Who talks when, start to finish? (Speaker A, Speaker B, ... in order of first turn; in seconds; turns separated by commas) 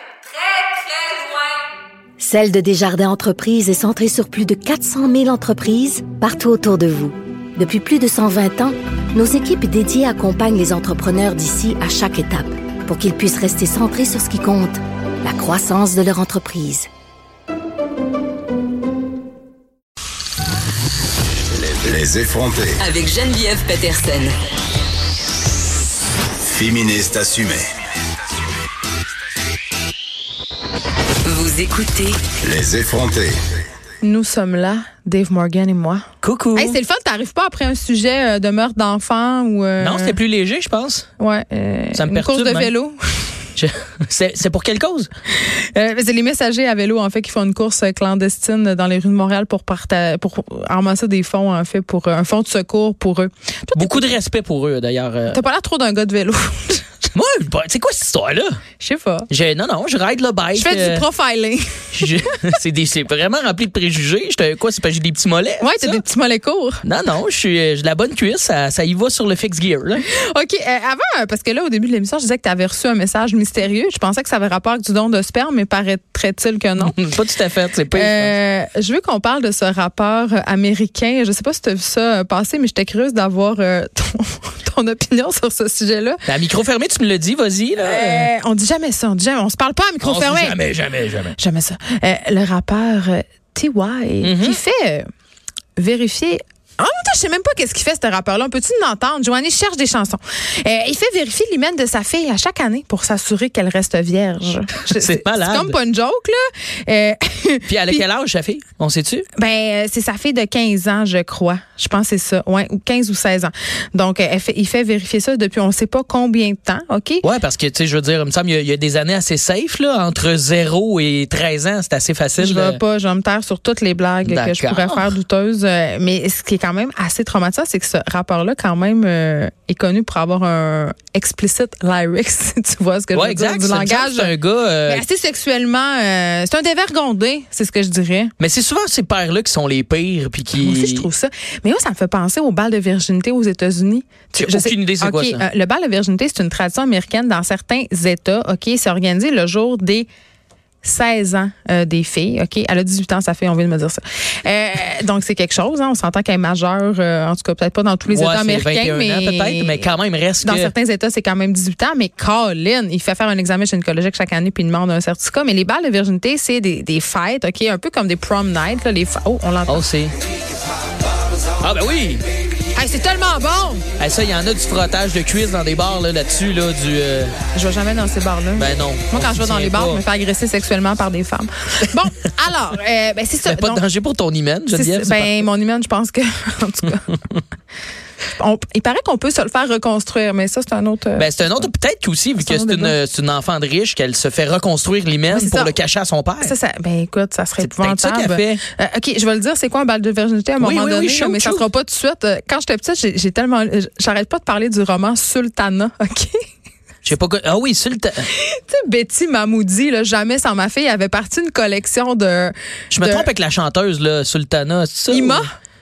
Speaker A: 0.4-1.2, Speaker B: 2.2-16.9, Speaker C: 21.7-22.8, Speaker D: 22.8-24.3, Speaker C: 26.6-27.6, Speaker D: 31.2-32.2, Speaker C: 32.4-33.3, Speaker A: 34.0-36.0, Speaker E: 36.2-36.8, Speaker A: 36.6-40.2, Speaker E: 39.8-41.1, Speaker A: 41.2-43.3, Speaker E: 41.9-42.7, Speaker E: 43.6-45.1, Speaker A: 45.4-54.1, Speaker E: 53.8-55.4, Speaker A: 55.3-57.0, Speaker E: 57.1-58.6, Speaker A: 58.8-59.3, Speaker E: 59.3-61.0, Speaker A: 60.5-62.3, Speaker E: 62.0-66.0, Speaker A: 65.6-66.8, Speaker E: 66.8-70.0, Speaker A: 70.1-77.0, Speaker E: 76.8-78.3, Speaker A: 77.9-86.2, Speaker E: 86.3-88.3, Speaker A: 87.8-90.6, Speaker E: 90.0-91.4, Speaker A: 91.4-95.1, Speaker E: 94.2-94.6, Speaker A: 95.8-108.0, Speaker E: 104.9-105.8, Speaker E: 107.7-109.3, Speaker A: 109.4-117.2, Speaker E: 117.2-122.8, Speaker A: 122.4-134.3, Speaker E: 124.2-125.1, Speaker E: 133.1-135.0, Speaker A: 134.9-138.3, Speaker E: 138.4-141.1, Speaker A: 140.6-150.1, Speaker E: 144.4-145.4, Speaker A: 150.8-169.8, Speaker E: 158.1-160.7, Speaker E: 169.7-170.2, Speaker E: 171.6-172.2, Speaker A: 172.7-173.8, Speaker E: 174.0-177.3, Speaker A: 177.5-183.8, Speaker E: 178.6-180.0, Speaker E: 183.4-185.4, Speaker A: 184.7-187.2, Speaker A: 188.4-191.7, Speaker E: 191.2-196.6, Speaker A: 192.4-193.0, Speaker A: 195.3-195.8, Speaker A: 196.4-206.4, Speaker E: 197.6-198.6, Speaker E: 200.6-201.7, Speaker E: 207.1-208.3, Speaker A: 208.3-213.3, Speaker E: 212.9-215.5, Speaker A: 215.1-215.5